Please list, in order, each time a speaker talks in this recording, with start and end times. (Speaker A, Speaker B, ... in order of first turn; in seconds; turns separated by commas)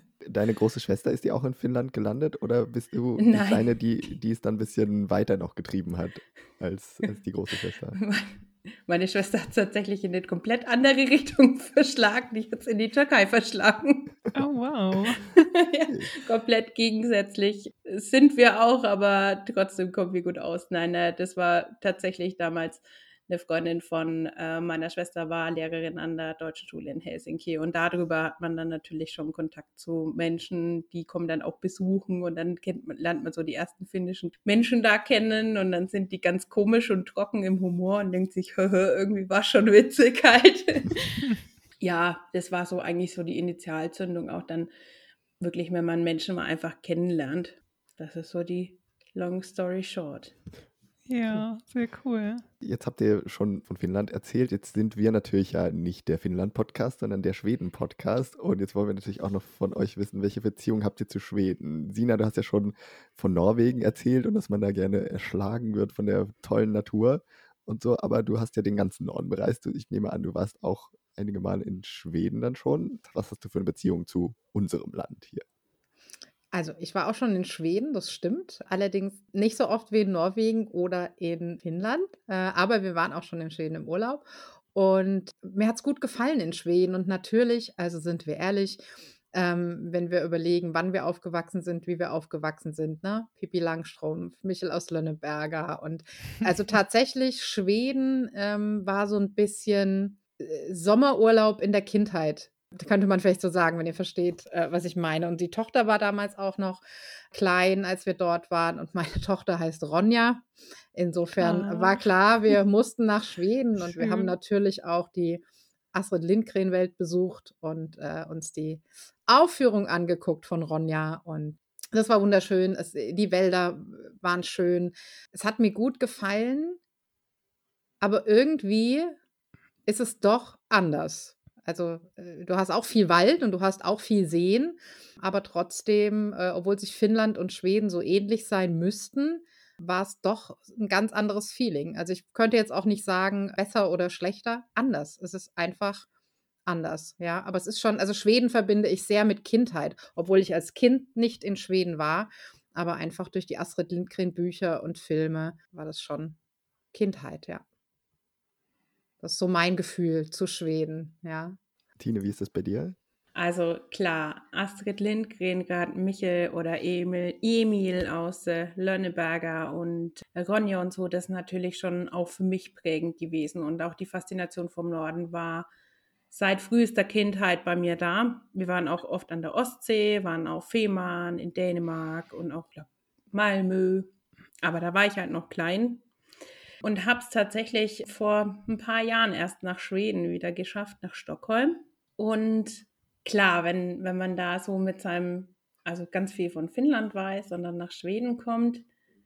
Speaker A: 0.2-8.0, Speaker B: 3.2-4.1, Speaker B: 8.0-14.2, Speaker C: 14.3-15.4, Speaker B: 15.2-41.2, Speaker B: 41.8-44.7, Speaker B: 45.4-50.4, Speaker C: 51.1-52.4, Speaker A: 52.6-75.4, Speaker D: 76.5-88.8, Speaker D: 89.3-115.4, Speaker C: 111.4-112.0, Speaker C: 113.9-114.3, Speaker D: 115.9-126.8, Speaker D: 128.0-129.2, Speaker D: 129.9-146.1, Speaker D: 146.7-156.4, Speaker D: 156.9-157.6, Speaker D: 159.2-161.6, Speaker A: 162.0-163.0, Speaker B: 163.3-175.7, Speaker B: 176.3-184.1, Speaker B: 184.6-186.0, Speaker B: 186.8-198.9